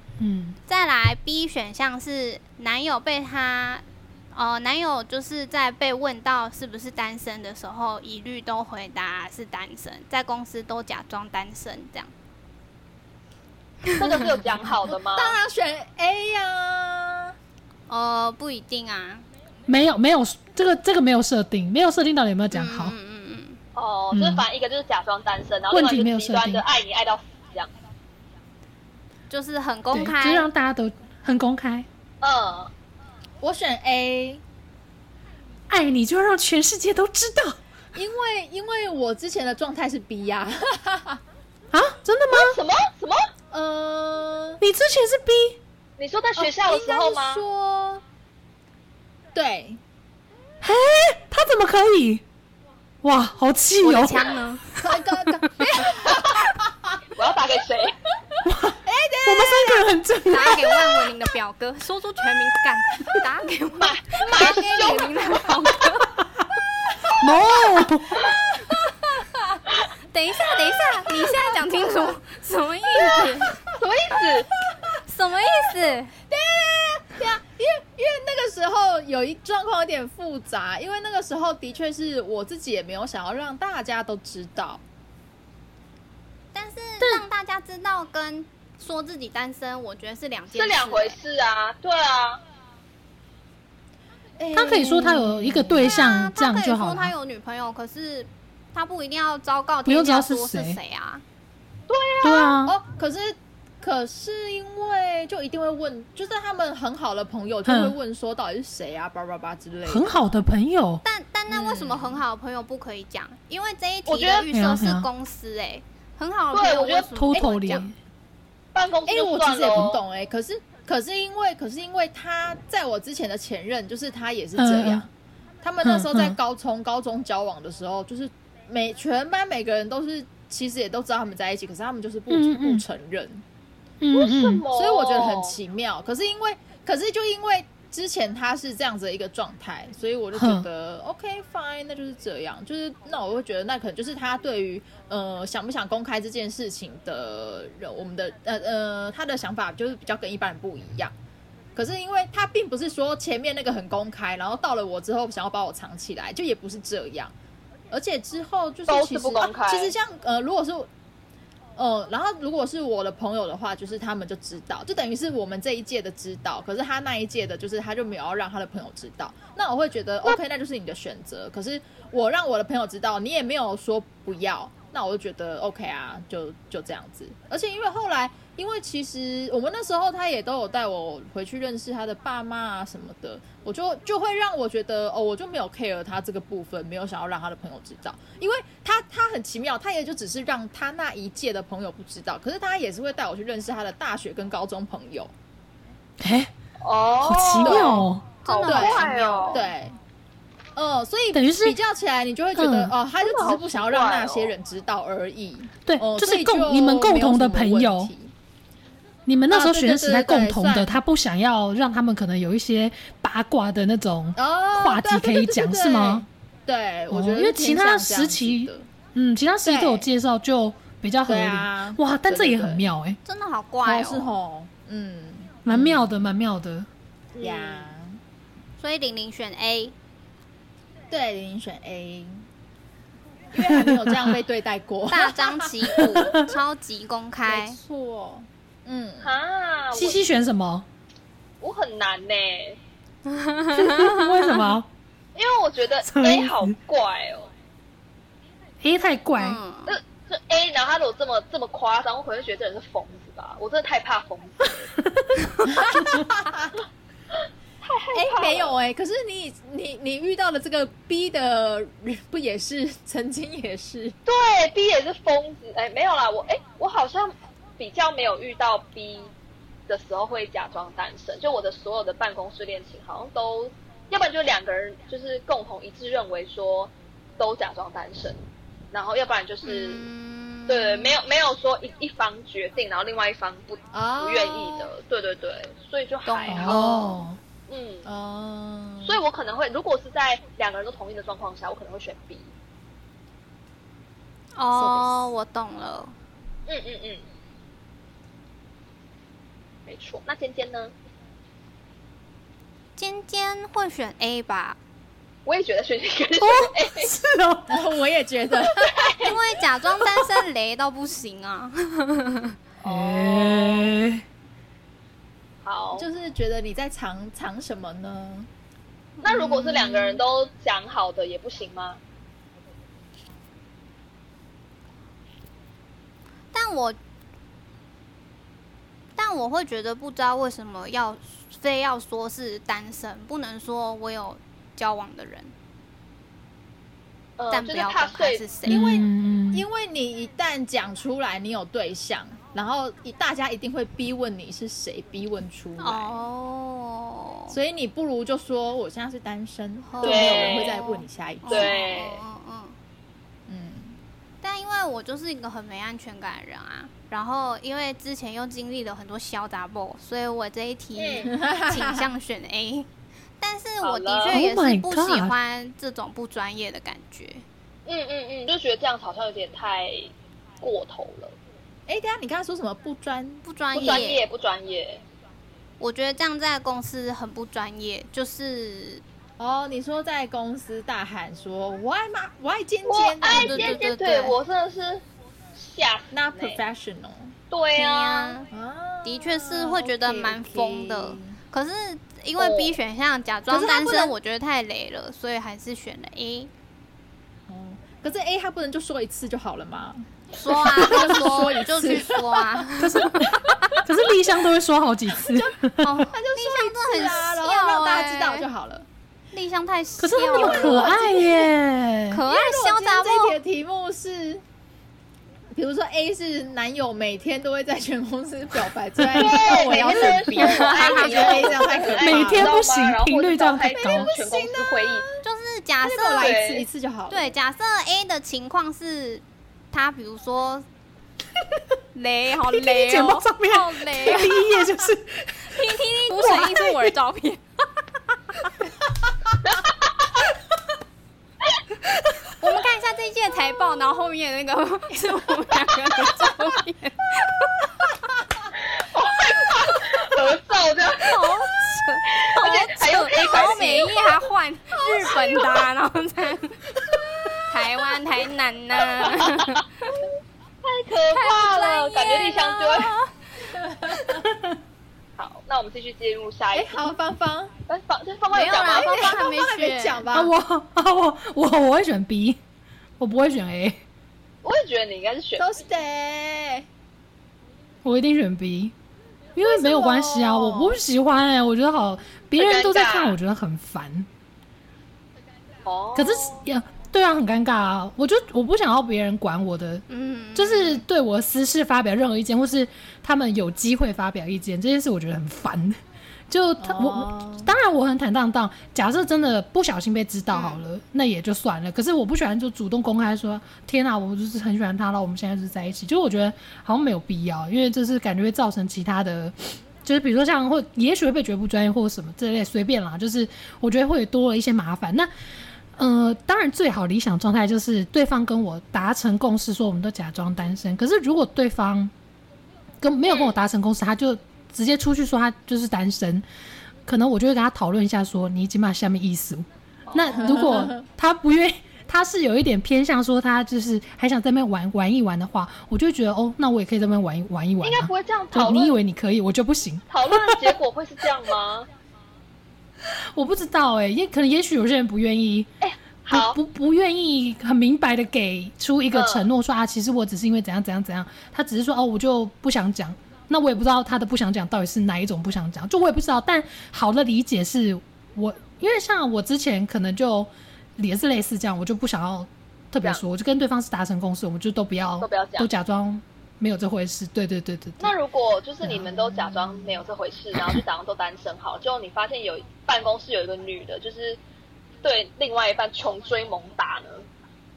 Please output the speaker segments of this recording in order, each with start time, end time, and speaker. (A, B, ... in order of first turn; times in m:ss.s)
0:00.2-0:00.6 A
0:00.7-0:12.1 B
0:13.9-0:15.4 C
0:14.8-0:17.4 D
0:17.9-0:19.2 B
0:19.7-0:22.9 A
0:22.5-0:23.6 B
0:23.7-0:27.7 C
0:24.1-0:24.4 A
0:25.7-0:26.6 A
0:29.3-0:30.5 B
0:29.9-0:31.9 A
0:32.2-0:32.7 C
0:33.4-0:34.4 D
0:35.7-0:37.6 A
0:37.9-0:41.2 D
0:41.7-0:42.6 A
0:42.3-0:43.3 C
0:43.5-0:44.6 D
0:44.6-0:45.6 A
0:46.0-0:47.4 C
0:46.4-0:48.0 D
0:49.3-0:49.8 D
0:50.6-0:52.2 A
0:53.0-0:55.9 A
0:53.8-0:54.6 B
0:54.8-0:57.0 D
0:56.1-0:56.4 C
0:57.2-0:58.0 C
0:58.4-1:01.0 A
0:58.8-1:00.0 D
1:00.3-1:06.1 B
1:03.8-1:05.4 C
1:07.0-1:07.4 D
1:07.2-1:08.3 A
1:08.2-1:09.6 D
1:10.1-1:13.6 B
1:10.6-1:11.9 D
1:13.0-1:13.3 D
1:13.7-1:14.5 C
1:14.2-1:15.0 D
1:15.1-1:16.1 B
1:16.3-1:24.8 D
1:26.5-1:31.2 B
1:30.5-1:32.4 C
1:34.4-1:36.0 D
1:34.5-1:37.1 A
1:35.8-1:41.2 B
1:39.9-1:40.8 A
1:41.9-1:42.6 C
1:42.2-1:42.7 A
1:42.6-1:50.2 D
1:47.7-1:48.0 A
1:49.9-1:51.0 A
1:51.0-1:57.9 B
1:51.5-1:52.2 D
1:54.1-1:54.5 C
1:54.5-1:55.1 A
1:56.5-1:57.1 C
1:57.1-1:57.9 A
1:57.3-1:57.9 D
1:58.8-2:00.0 C
1:59.1-2:05.1 D
2:04.6-2:05.0 A
2:05.6-2:13.4 D
2:05.8-2:06.4 A
2:12.3-2:12.8 A
2:14.0-2:14.6 A
2:14.1-2:15.6 C
2:14.7-2:31.1 D
2:20.3-2:20.7 A
2:31.8-2:37.3 D
2:37.9-2:40.9 D
2:38.9-2:39.9 C
2:41.8-3:15.3 D
3:16.2-3:16.5 A
3:16.8-3:19.6 C
3:17.2-3:18.3 A
3:17.6-3:18.1 D
3:18.4-3:19.7 B
3:18.6-3:20.0 D
3:20.8-3:28.3 D
3:21.3-3:21.8 A
3:22.6-3:22.9 A
3:23.2-3:24.5 C
3:25.8-3:28.1 A
3:29.3-3:36.3 A
3:29.5-3:31.0 D
3:34.4-3:38.9 D
3:37.1-3:43.2 A
3:39.6-3:40.1 D
3:41.2-3:42.9 D
3:43.2-3:44.4 B
3:43.8-3:46.3 D
3:45.7-3:46.9 A
3:47.4-3:47.9 C
3:47.4-3:48.2 D
3:48.8-3:49.9 B
3:51.1-3:52.5 D
3:53.5-3:56.2 D
3:53.6-3:54.3 A
3:55.1-3:57.8 B
3:55.9-3:56.6 A
3:57.5-3:59.3 D
3:59.2-4:00.2 C
3:59.9-4:00.9 A
4:01.6-4:02.8 C
4:03.3-4:04.8 B
4:03.7-4:04.9 A
4:05.4-4:07.5 C
4:06.0-4:06.7 A
4:08.8-4:09.6 A
4:09.4-4:10.0 B
4:09.9-4:14.9 C
4:15.2-4:15.4 A
4:15.6-4:16.8 D
4:16.0-4:16.2 A
4:17.8-4:18.8 C
4:18.1-4:24.2 D
4:24.3-4:29.3 C
4:29.9-4:40.0 C
4:39.6-4:41.2 B
4:40.7-4:47.2 C
4:43.9-4:44.9 D
4:46.3-4:47.2 B
4:46.5-4:47.4 A
4:47.7-4:48.1 C
4:48.0-4:49.2 D
4:49.0-4:52.5 C
4:54.6-4:56.2 B
4:54.7-4:55.2 D
4:56.7-4:57.2 C
4:59.9-5:00.9 C
5:03.0-5:04.8 B
5:05.5-5:07.1 C
5:06.4-5:07.8 A
5:07.7-5:08.9 D
5:08.6-5:09.4 C
5:09.2-5:12.6 B
5:12.8-5:13.9 C
5:12.9-5:14.2 A
5:15.6-5:16.1 C
5:16.0-5:18.5 D
5:19.2-5:20.2 B
5:19.2-5:22.0 C
5:26.5-5:27.0 B
5:29.2-5:35.5 B
5:37.4-5:38.5 C
5:37.5-5:38.8 B
5:38.7-5:46.2 D
5:38.7-5:39.6 A
5:45.8-5:47.6 B
5:47.5-5:51.7 D
5:49.9-5:52.8 B
5:50.0-5:50.8 C
5:51.5-5:52.2 C
5:53.5-5:54.0 D
5:54.4-6:02.9 B
6:01.0-6:01.3 C
6:01.2-6:02.1 D
6:03.4-6:07.4 B
6:03.8-6:04.4 C
6:04.3-6:05.4 A
6:07.9-6:11.4 C
6:11.9-6:14.1 D
6:13.4-6:14.3 B
6:13.7-6:15.0 C
6:15.8-6:19.0 B
6:19.4-6:23.8 D
6:22.9-6:25.0 C
6:23.2-6:24.4 B
6:25.6-6:26.6 C
6:26.1-6:27.4 D
6:27.5-6:28.4 C
6:27.8-6:28.5 B
6:28.5-6:31.4 D
6:29.0-6:36.5 B
6:32.4-6:32.8 C
6:33.5-6:34.2 D
6:37.5-6:42.7 D
6:40.3-6:43.8 B
6:40.6-6:41.4 A
6:42.8-6:46.1 A
6:43.3-6:43.8 D
6:45.2-6:45.5 D
6:45.8-6:48.5 B
6:46.1-6:48.9 D
6:49.3-6:51.1 B
6:50.0-6:52.2 A
6:50.3-6:51.5 D
6:52.1-6:53.4 B
6:52.2-6:54.4 D
6:55.6-7:02.6 D
6:59.0-6:59.4 A
6:59.1-7:05.1 C
7:00.3-7:01.9 B
7:02.0-7:04.1 A
7:03.7-7:05.2 D
7:05.2-7:06.4 B
7:05.8-7:07.3 D
7:06.2-7:06.6 C
7:07.1-7:10.6 B
7:11.9-7:14.5 B
7:12.6-7:17.0 A
7:15.5-7:17.4 B
7:22.4-7:27.7 B
7:28.8-7:31.2 C
7:30.9-7:36.6 B
7:32.1-7:34.2 C
7:34.8-7:35.2 D
7:37.5-7:40.0 B
7:39.0-7:39.6 C
7:40.6-7:42.9 C
7:41.1-7:43.1 B
7:43.4-7:44.3 D
7:45.2-7:46.9 C
7:46.5-7:47.5 D
7:47.7-7:49.2 C
7:48.3-7:50.0 B
7:48.7-7:50.3 D
7:50.1-7:52.4 A
7:53.0-7:53.8 A
7:54.4-7:55.5 C
7:55.4-7:56.7 D
7:57.8-7:58.7 A
7:59.4-8:04.1 A
7:59.4-8:00.8 D
8:02.4-8:03.2 C
8:05.6-8:06.5 C
8:06.0-8:15.8 A
8:09.9-8:10.8 B
8:16.3-8:35.1 A
8:16.6-8:17.5 D
8:20.3-8:20.6 B
8:35.8-8:41.9 A
8:42.8-8:46.2 A
8:43.0-8:43.4 C
8:46.8-9:00.5 A
8:49.9-8:50.6 C
8:50.1-8:50.8 D
8:57.6-8:58.8 C
8:59.9-9:01.7 C
9:02.8-9:05.5 A
9:05.6-9:06.4 C
9:06.1-9:27.9 A
9:08.9-9:09.3 C
9:25.0-9:25.5 C
9:27.8-9:34.2 C
9:28.6-9:29.2 A
9:29.2-9:29.8 D
9:30.4-9:30.6 A
9:34.8-9:37.1 C